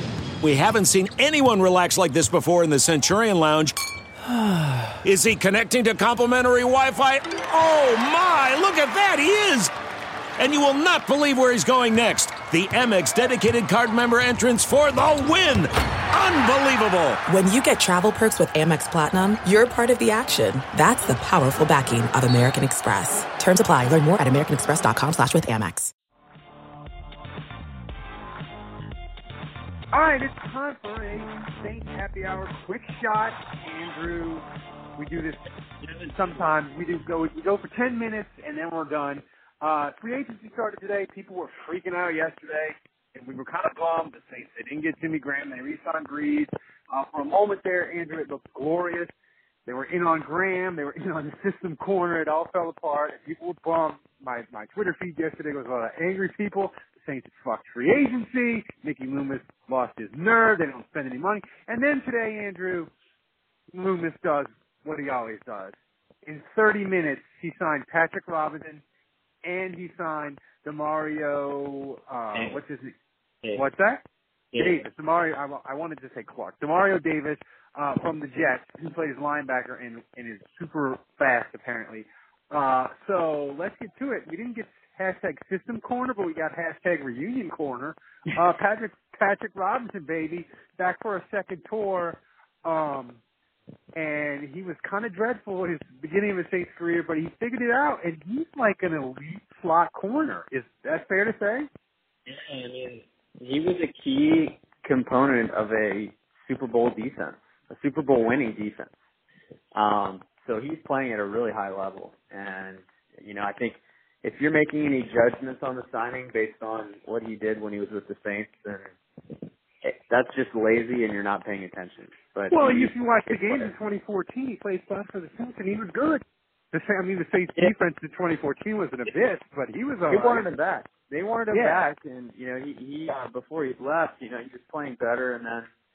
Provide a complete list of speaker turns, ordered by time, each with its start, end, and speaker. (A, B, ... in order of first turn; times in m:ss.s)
0:00.4-0:03.7 A
0:05.0-0:09.7 A
0:10.4-0:17.2 A
0:17.3-0:25.9 B
0:29.9-0:35.4 C
0:36.1-0:49.1 C
0:40.3-0:40.6 A
0:44.0-0:44.2 A
0:49.7-1:02.9 C
0:50.8-0:51.4 A
1:03.7-1:05.7 C
1:06.2-1:08.8 C
1:09.4-1:13.0 C
1:12.3-1:12.6 D
1:13.6-1:14.0 C
1:14.5-1:14.9 D
1:14.6-1:33.2 C
1:33.9-1:41.7 C
1:42.3-1:49.0 D
1:49.7-1:58.8 D
1:59.8-2:03.7 D
2:02.5-2:06.2 C
2:06.7-2:10.2 C
2:10.1-2:15.7 D
2:11.5-2:11.8 C